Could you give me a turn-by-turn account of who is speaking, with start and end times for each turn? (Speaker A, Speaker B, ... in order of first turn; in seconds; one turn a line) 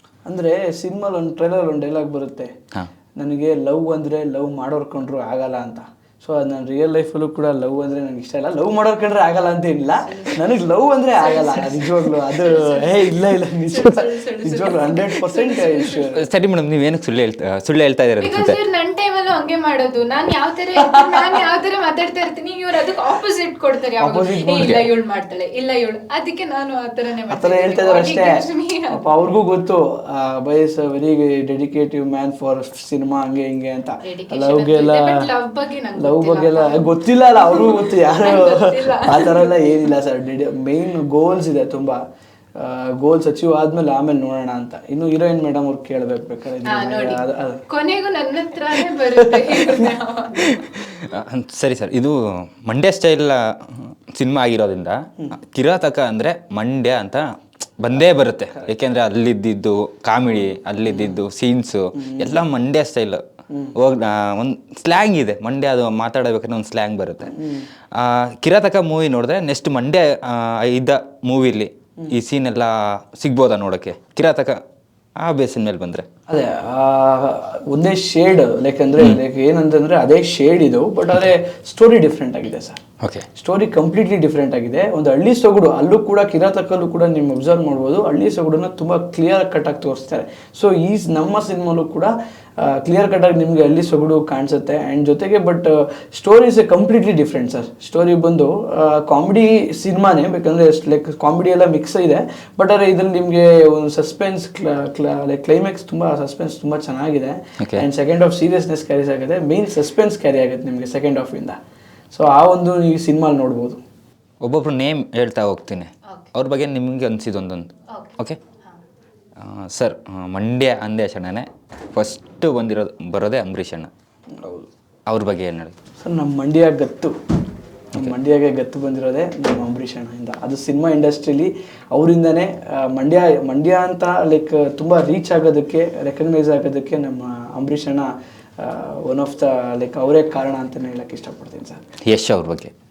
Speaker A: 0.2-2.5
Speaker A: 3.2-16.2
Speaker B: 10.0-10.5
Speaker B: 11.2-16.1
Speaker C: 16.1-18.5
Speaker B: 18.2-29.0
Speaker A: 24.0-24.9
Speaker A: 27.3-35.2
Speaker B: 34.0-39.7
Speaker A: 36.0-42.0
Speaker A: 42.5-47.6
Speaker B: 46.7-50.6
Speaker A: 49.3-49.9
Speaker A: 50.4-50.8
Speaker C: 50.9-57.2
Speaker C: 57.8-63.2
Speaker A: 60.9-61.1
Speaker A: 61.9-62.4
Speaker A: 63.5-63.7
Speaker C: 63.7-67.3
Speaker A: 67.3-67.7
Speaker C: 67.9-74.6
Speaker C: 75.2-76.0
Speaker A: 76.3-82.8
Speaker A: 83.4-111.6
Speaker C: 107.6-107.8
Speaker A: 112.1-113.8
Speaker C: 114.4-118.4
Speaker B: 117.9-118.8
Speaker C: 119.4-123.9
Speaker A: 124.4-124.7
Speaker C: 125.1-125.7
Speaker A: 126.0-127.1
Speaker A: 127.9-141.8
Speaker C: 142.0-142.7